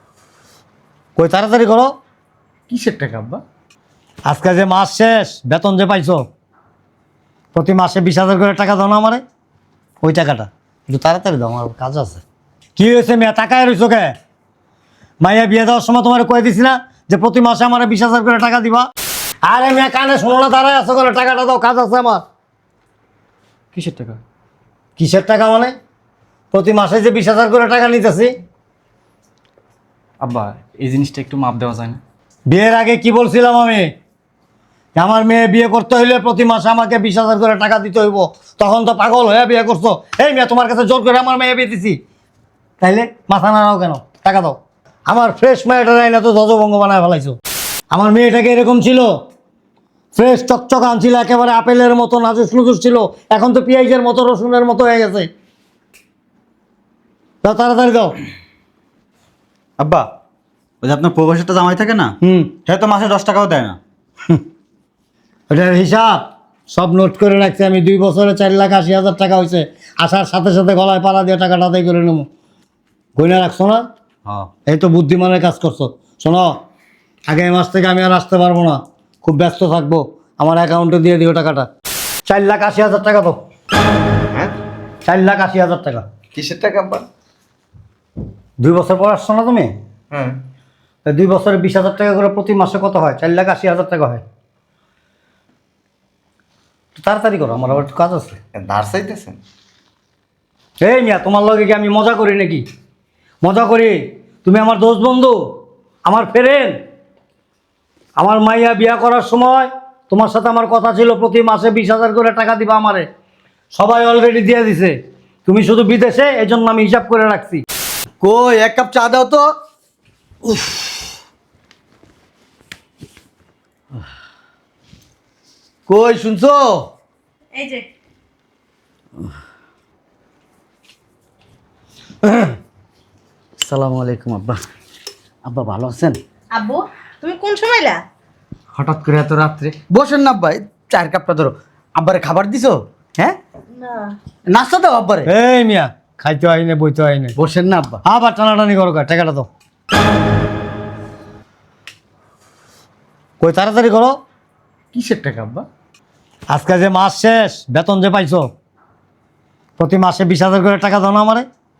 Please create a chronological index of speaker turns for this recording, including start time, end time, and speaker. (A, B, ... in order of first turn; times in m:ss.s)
0:01.2-0:02.0 A
0:02.7-0:03.4 B
0:04.3-0:06.3 A
0:07.5-0:09.2 A
0:10.0-0:12.2 A
0:12.8-0:14.2 A
0:15.2-0:18.9 A
0:19.4-0:22.2 A
0:23.7-0:24.2 C
0:25.0-0:25.8 A
0:26.5-0:28.4 A
0:30.2-0:32.0 C
0:32.5-0:33.9 A
0:35.0-0:42.0 A
0:42.8-0:47.4 A
0:47.9-0:49.2 A
0:50.2-0:55.3 A
0:57.4-0:58.1 A
0:59.8-1:00.1 D
1:00.8-1:03.8 D
1:02.2-1:02.5 A
1:05.5-1:12.3 A
1:13.2-1:13.8 A
1:14.7-1:16.6 A
1:17.3-1:21.7 A
1:22.3-1:23.4 A
1:25.1-1:26.0 A
1:26.3-1:27.1 E
1:28.6-1:29.7 A
1:30.1-1:30.4 E
1:31.1-1:34.2 A
1:37.0-1:38.4 A
1:38.6-1:39.4 E
1:40.8-1:42.6 A
1:43.4-1:45.4 A
1:46.1-1:46.8 A
1:48.2-1:53.1 A
1:53.7-1:57.6 A
1:58.2-1:59.5 B
2:00.5-2:00.8 B
2:05.9-2:06.9 B
2:07.5-2:07.8 F
2:12.2-2:12.6 B
2:13.6-2:14.6 B
2:15.4-2:16.2 B
2:16.5-2:18.0 F
2:18.8-2:23.4 B
2:23.8-2:24.2 F
2:24.5-2:25.3 B
2:25.3-2:27.4 A
2:27.4-2:28.0 B
2:28.0-2:29.5 A
2:33.4-2:34.2 A
2:34.9-2:35.6 B
2:36.5-2:38.5 A
2:39.8-2:41.5 A